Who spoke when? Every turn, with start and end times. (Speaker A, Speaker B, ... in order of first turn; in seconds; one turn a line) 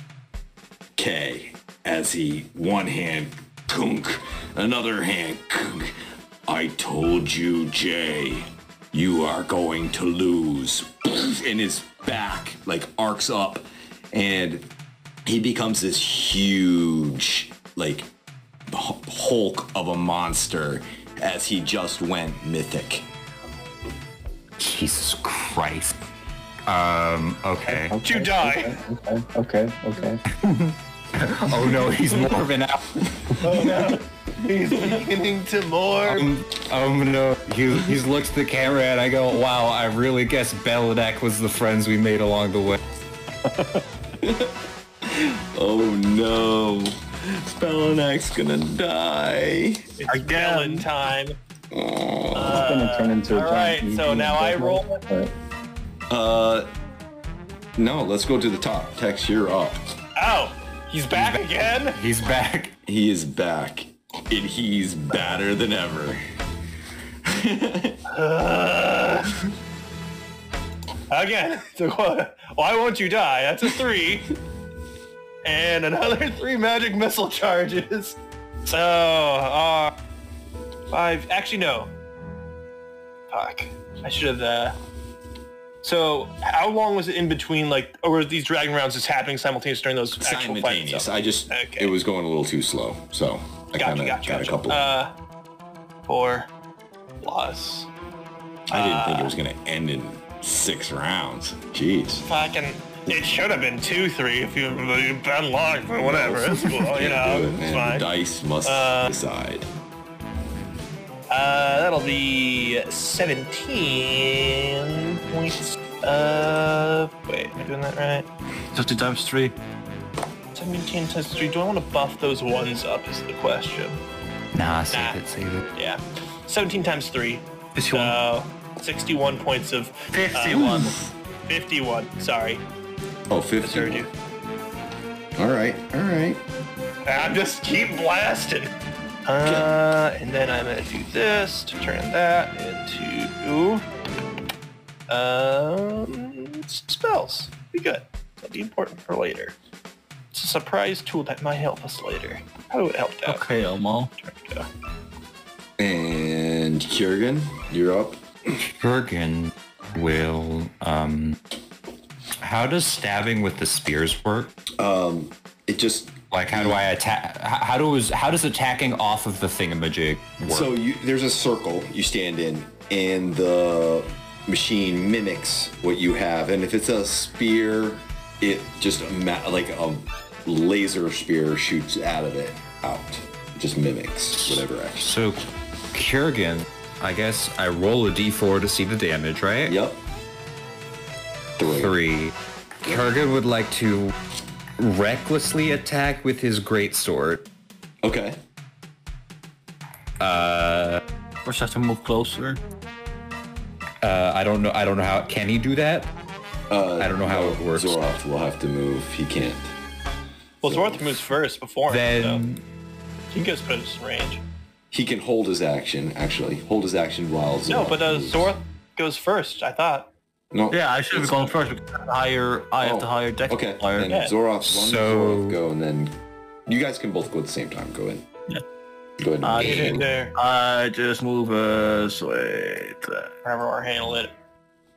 Speaker A: 1.0-14.7
Speaker A: 15.2-18.1
Speaker A: 18.7-23.1
Speaker B: 24.6-25.9
Speaker B: 26.7-28.0
Speaker C: 27.7-30.2
Speaker D: 28.0-28.8
Speaker B: 30.3-33.7
Speaker D: 33.4-36.3
Speaker B: 36.1-42.8
Speaker A: 44.2-49.9
Speaker D: 50.0-51.4
Speaker E: 50.1-50.9
Speaker A: 51.7-52.7
Speaker D: 52.4-55.0
Speaker C: 52.5-55.3
Speaker A: 56.1-56.7
Speaker A: 57.8-59.9
Speaker D: 60.2-62.0
Speaker B: 61.1-62.8
Speaker A: 62.9-66.2
Speaker A: 67.2-68.0
Speaker D: 68.1-69.3
Speaker D: 71.1-74.3
Speaker D: 75.4-79.9
Speaker D: 80.9-81.9
Speaker D: 83.3-84.8
Speaker D: 85.8-91.9
Speaker A: 90.2-94.9
Speaker D: 93.8-95.1
Speaker D: 96.1-96.5
Speaker D: 97.2-97.9
Speaker A: 98.7-102.3
Speaker D: 98.7-99.3
Speaker D: 102.3-108.1
Speaker A: 106.0-109.7
Speaker D: 108.7-109.1
Speaker D: 111.3-118.3
Speaker E: 118.7-119.6
Speaker D: 120.5-124.0
Speaker B: 124.5-125.7
Speaker D: 124.9-125.2
Speaker D: 125.8-130.9
Speaker E: 127.8-128.2
Speaker E: 130.1-131.0
Speaker D: 131.5-132.6
Speaker A: 133.3-134.1
Speaker D: 133.6-134.1
Speaker A: 135.4-136.4
Speaker D: 137.1-138.7
Speaker D: 139.3-143.8
Speaker A: 139.4-139.7
Speaker D: 145.1-149.6
Speaker D: 150.3-153.5
Speaker E: 153.2-154.3
Speaker D: 154.3-154.7
Speaker A: 155.8-158.6
Speaker B: 158.7-161.4
Speaker B: 162.4-164.5
Speaker A: 164.8-166.8
Speaker B: 166.3-170.7
Speaker A: 170.5-185.2
Speaker B: 185.0-189.8
Speaker A: 189.7-190.0
Speaker A: 191.6-192.0
Speaker B: 191.8-194.2
Speaker B: 194.8-197.5
Speaker A: 198.0-198.4
Speaker B: 200.2-201.0
Speaker E: 201.4-202.6
Speaker B: 204.0-206.1
Speaker A: 206.7-209.7
Speaker B: 207.0-208.0
Speaker D: 210.6-212.4
Speaker A: 210.7-211.2
Speaker B: 211.9-212.6
Speaker D: 213.3-214.4
Speaker A: 214.9-218.5
Speaker D: 217.7-220.1
Speaker A: 220.5-221.7
Speaker E: 220.7-224.2
Speaker A: 222.8-228.3
Speaker D: 224.1-224.3
Speaker B: 224.6-225.6
Speaker A: 229.2-230.1
Speaker E: 229.4-233.3
Speaker B: 229.6-229.9
Speaker D: 229.6-230.3
Speaker D: 233.4-234.3